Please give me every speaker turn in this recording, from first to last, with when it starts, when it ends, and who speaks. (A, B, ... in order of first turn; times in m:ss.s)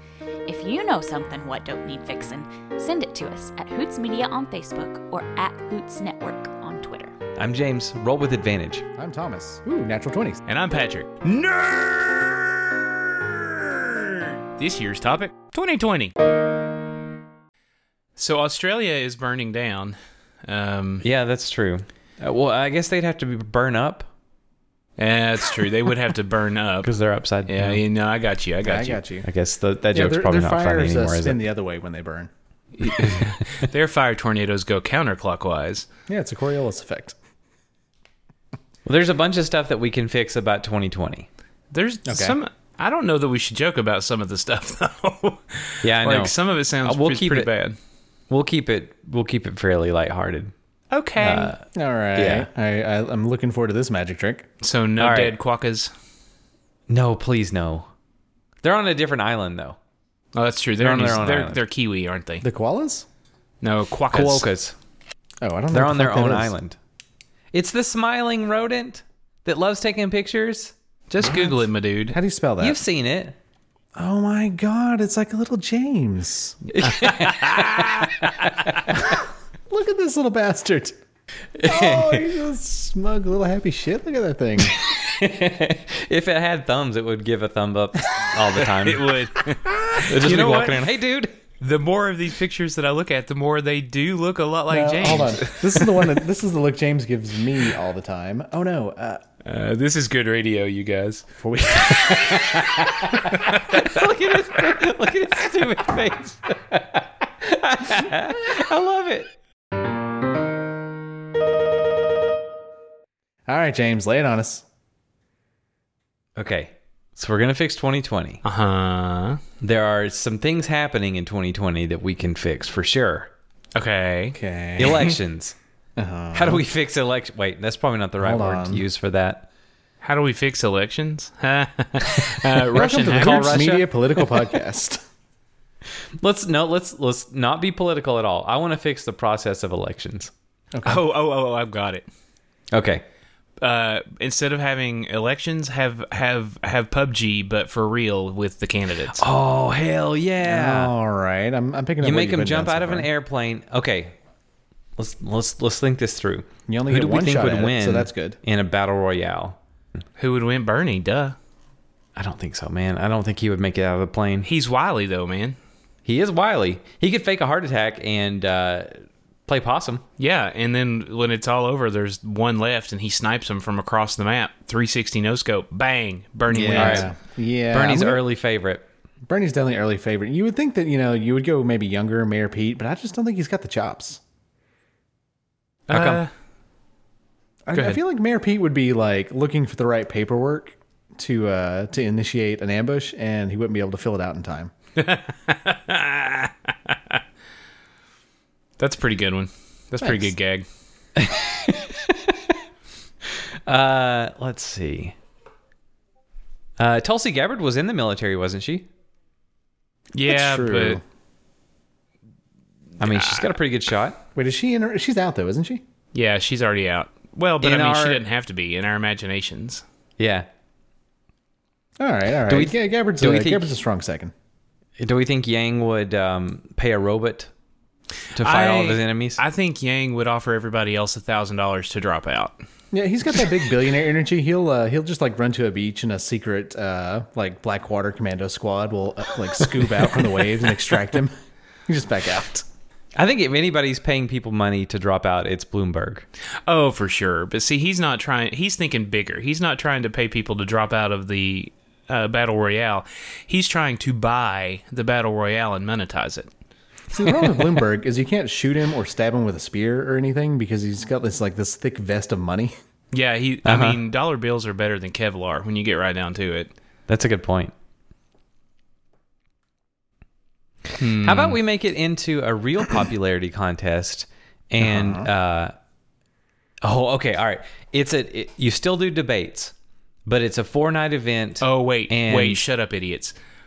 0:00.5-0:07.1 A
0:07.4-0:08.8 B
0:09.0-0:10.4 C
0:10.5-0:16.1 D
0:18.2-0:21.0 D
0:21.0-0:24.1 B
0:25.0-0:26.9 D
0:26.8-0:27.8 B
0:27.4-0:29.0 D
0:28.6-0:29.3 C
0:29.2-0:31.4 B
0:29.9-0:32.3 C
0:32.8-0:35.9 D
0:32.9-0:33.3 B
0:36.1-0:37.2 C
0:38.8-0:41.3 B
0:41.7-0:47.8 D
0:42.1-0:42.4 C
0:45.8-0:47.5 B
0:48.3-0:50.5 B
0:50.9-0:51.5 D
0:51.2-0:52.5 B
0:51.7-0:54.5 C
0:54.6-0:55.9 D
0:55.0-0:55.4 B
0:56.9-0:57.9 B
0:58.6-0:59.8 B
1:00.3-1:02.4 D
1:00.8-1:01.6 B
1:02.4-1:03.0 C
1:03.6-1:04.5 D
1:04.1-1:04.8 B
1:05.4-1:06.5 C
1:05.7-1:06.8 B
1:07.5-1:10.7 B
1:11.1-1:12.2 D
1:11.2-1:11.6 C
1:12.1-1:12.8 C
1:12.6-1:13.4 B
1:13.9-1:16.6 C
1:16.8-1:19.0 B
1:16.8-1:18.1 D
1:19.7-1:20.9 C
1:21.6-1:22.4 B
1:21.6-1:24.8 C
1:24.7-1:29.1 B
1:28.7-1:30.8 D
1:30.0-1:31.3 B
1:31.6-1:36.0 D
1:34.7-1:39.2 C
1:39.4-1:41.2 D
1:41.4-1:43.3 C
1:43.3-1:43.9 D
1:43.7-1:49.3 B
1:53.5-1:54.6 C
1:56.4-1:58.4 B
1:58.4-1:59.4 D
1:59.6-2:03.3 B
2:03.8-2:04.4 D
2:04.3-2:05.1 C
2:04.8-2:05.6 B
2:06.0-2:06.6 C
2:06.3-2:09.5 B
2:08.2-2:08.8 C
2:10.0-2:13.9 D
2:12.7-2:15.0 C
2:13.2-2:13.6 B
2:16.2-2:20.3 B
2:20.7-2:21.0 C
2:20.8-2:22.0 D
2:22.7-2:23.0 B
2:23.6-2:29.2 D
2:29.2-2:30.9 B
2:30.4-2:33.1 C
2:32.0-2:34.2 B
2:35.0-2:39.6 B
2:36.7-2:38.4 C
2:40.2-2:41.4 D
2:42.2-2:44.5 B
2:44.4-2:45.6 D
2:46.0-2:50.0 B
2:50.2-2:57.1 D
2:56.5-2:58.2 C
2:56.5-2:57.1 B
2:57.7-2:58.8 B
2:59.2-3:04.2 C
3:05.9-3:06.3 D
3:05.9-3:06.2 B
3:07.6-3:14.7 C
3:07.7-3:08.0 B
3:15.0-3:17.2 D
3:18.8-3:20.6 D
3:20.0-3:20.3 C
3:21.2-3:22.4 B
3:23.6-3:25.1 B
3:26.8-3:28.9 B
3:30.1-3:31.0 D
3:30.3-3:31.0 C
3:33.0-3:33.5 D
3:33.0-3:34.2 B
3:34.3-3:35.8 C
3:36.1-3:39.8 D
3:37.6-3:38.2 B
3:40.2-3:40.5 B
3:42.0-3:44.3 C
3:42.5-3:43.7 B
3:45.0-3:47.5 B
3:48.3-3:49.4 B
3:48.4-3:52.6 D
3:52.9-4:01.3 C
4:01.9-4:02.6 C
4:03.1-4:06.2 B
4:06.7-4:16.5 D
4:17.1-4:22.7 C
4:23.1-4:26.7 D
4:23.6-4:24.0 B
4:27.1-4:27.7 B
4:31.0-4:31.6 D
4:31.2-4:35.7 B
4:34.8-4:35.3 C
4:36.8-4:39.7 B
4:40.2-4:42.6 B
4:41.6-4:43.3 D